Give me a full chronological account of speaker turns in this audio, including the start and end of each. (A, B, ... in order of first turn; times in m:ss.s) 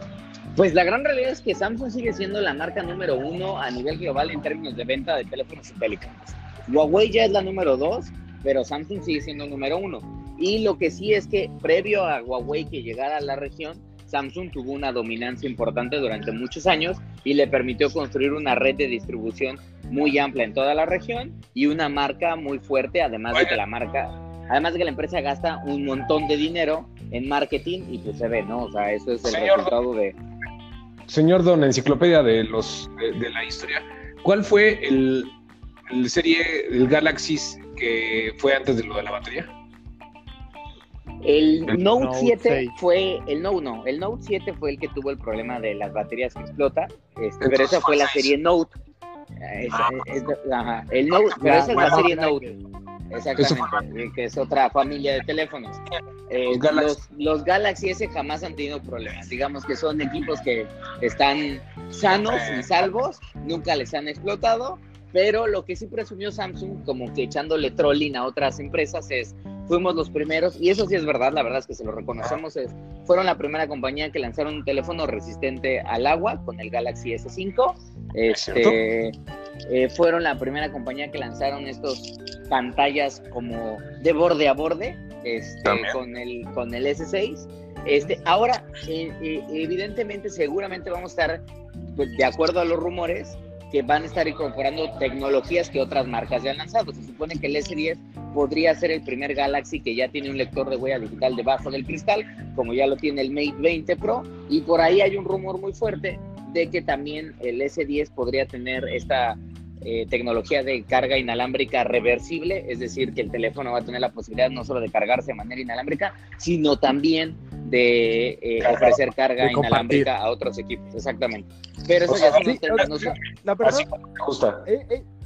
0:00.6-0:30.2 A
0:23.3-0:23.6 B
0:29.2-0:29.7 B
0:31.1-0:35.3 B
0:35.9-0:39.5 B
0:41.2-0:48.8 A
0:41.9-0:42.7 C
0:47.4-0:48.3 B
0:49.4-0:52.4 A
0:51.4-0:52.6 C
0:51.7-0:52.0 B
0:53.1-1:19.2 A
0:53.4-0:53.8 B
0:56.5-0:56.9 B
1:02.1-1:02.9 B
1:18.3-1:18.8 B
1:19.7-2:03.2 A
1:25.6-1:26.0 B
1:58.6-1:59.0 B
1:59.4-2:00.1 C
2:02.1-2:04.6 B
2:02.4-2:03.9 C
2:04.6-2:05.0 C